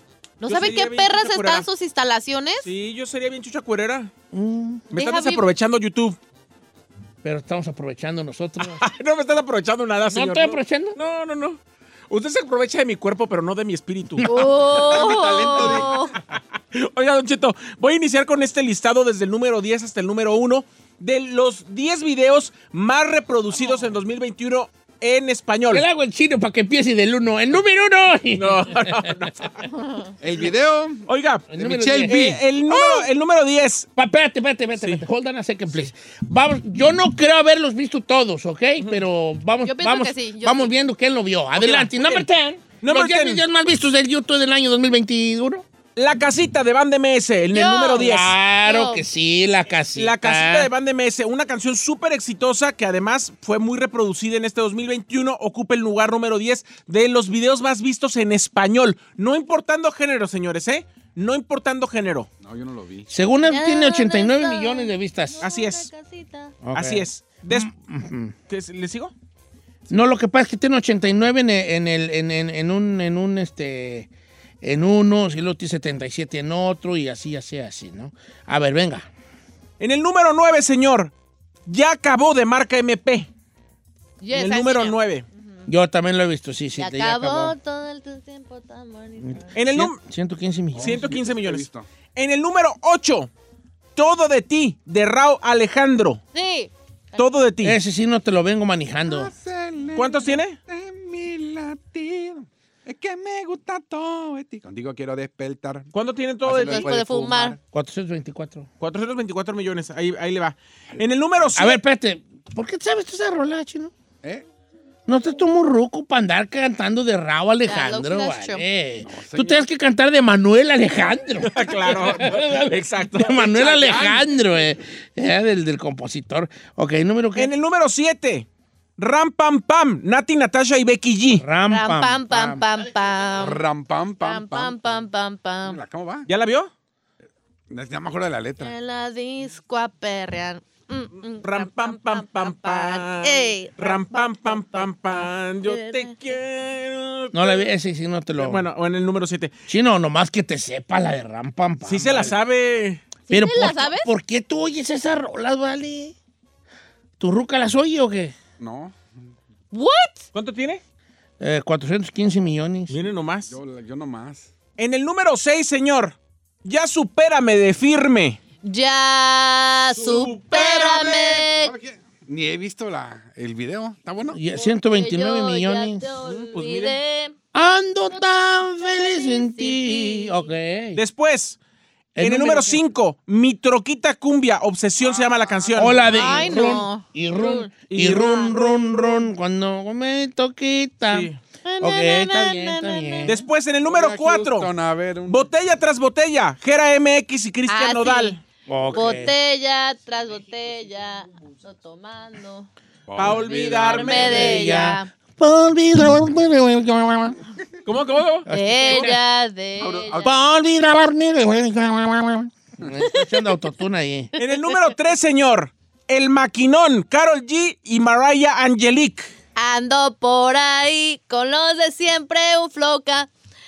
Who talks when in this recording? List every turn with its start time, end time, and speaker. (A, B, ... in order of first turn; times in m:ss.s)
0:00.4-0:02.7 A
0:00.4-0:01.7 B
0:02.6-0:04.1 B
0:04.3-0:04.8 C
0:04.9-0:05.4 A
0:04.9-0:06.2 B
0:07.2-0:08.8 C
0:08.6-0:11.6 B
0:10.1-0:11.0 C
0:12.1-0:14.3 B
0:14.2-0:16.1 A
0:14.6-0:15.9 D
0:16.7-0:25.8 B
0:23.6-0:23.9 A
0:25.7-0:29.1 C
0:28.4-0:29.7 B
0:29.7-0:30.1 A
0:30.2-0:31.0 D
0:31.1-0:31.5 B
0:31.5-0:32.2 C
0:31.6-0:33.1 D
0:32.1-0:33.9 B
0:34.0-0:45.6 C
0:39.6-0:40.7 A
0:41.6-0:42.3 B
0:42.8-0:43.4 B
0:46.0-0:48.3 B
0:47.5-0:49.0 A
0:48.0-0:50.7 C
0:50.0-1:02.3 B
1:02.4-1:03.1 D
1:03.1-1:05.4 C
1:03.4-1:06.5 A
1:05.4-1:05.9 B
1:06.6-1:08.3 C
1:06.7-1:07.7 B
1:08.5-1:09.1 B
1:09.9-1:14.1 C
1:14.6-1:19.1 C
1:19.8-1:21.1 B
1:21.7-1:23.3 B
1:24.2-1:25.7 A
1:24.3-1:25.2 B
1:25.7-1:27.5 C
1:26.8-1:29.5 A
1:29.2-1:31.1 C
1:29.5-1:30.0 B
1:30.7-1:31.8 D
1:30.8-1:33.3 B
1:34.0-1:36.2 B
1:36.3-1:37.3 A
1:37.2-1:37.8 B
1:37.6-1:39.3 C
1:39.1-1:45.9 D
1:39.9-1:40.6 B
1:45.9-1:46.9 B
1:46.4-1:47.6 D
1:46.5-1:47.6 A
1:47.7-1:48.7 C
1:48.8-1:51.8 B
1:51.6-1:53.9 C
1:55.1-2:07.5 C
1:57.6-1:58.6 A
1:59.0-1:59.6 D
2:01.5-2:04.1 B
2:01.6-2:02.3 D
2:03.6-2:04.2 D
2:07.4-2:08.5 B
2:09.0-2:11.4 B
2:11.4-2:12.6 C
2:11.7-2:13.6 A
2:13.4-2:15.1 D
2:14.2-2:15.8 A
2:15.6-2:16.3 D
2:16.3-2:16.7 B
2:17.7-2:18.7 D
2:18.6-2:26.2 A
2:21.4-2:27.6 B
2:27.3-2:28.6 C
2:28.4-2:29.5 B
2:29.7-2:32.3 C
2:31.8-2:33.0 B
2:33.3-2:34.1 A
2:33.3-2:36.1 C
2:37.2-2:38.3 C
2:38.6-2:39.0 D
2:39.7-2:40.3 A
2:40.3-2:40.8 B
2:41.4-2:42.9 C
2:42.9-2:43.5 B
2:43.5-2:44.5 D
2:44.8-2:48.4 B
2:48.6-2:51.7 A
2:50.0-2:50.4 B
2:50.0-2:54.4 D
2:54.3-2:56.1 C
2:54.5-2:57.3 A
2:56.2-2:57.0 B
2:57.5-3:01.0 C
2:58.8-3:00.4 A
3:00.9-3:01.6 B
3:02.2-3:02.8 C
3:02.2-3:06.4 B
3:05.0-3:06.0 D
3:05.8-3:11.3 C
3:06.1-3:07.7 A
3:07.9-3:09.2 B
3:11.1-3:11.4 B
3:11.6-3:13.4 A
3:11.8-3:13.4 C
3:13.2-3:14.7 B
3:13.8-3:15.5 D
3:15.3-3:18.4 B
3:17.7-3:18.4 A
3:18.7-3:19.3 C
3:18.9-3:22.7 A
3:23.1-3:24.4 D
3:23.2-3:24.8 B
3:23.8-3:25.1 A
3:24.1-3:27.4 C
3:27.8-3:28.5 B
3:28.5-3:29.2 C
3:28.5-3:30.3 A
3:29.8-3:30.3 D
3:30.2-3:34.4 C
3:34.4-3:39.3 B
3:39.6-3:43.3 A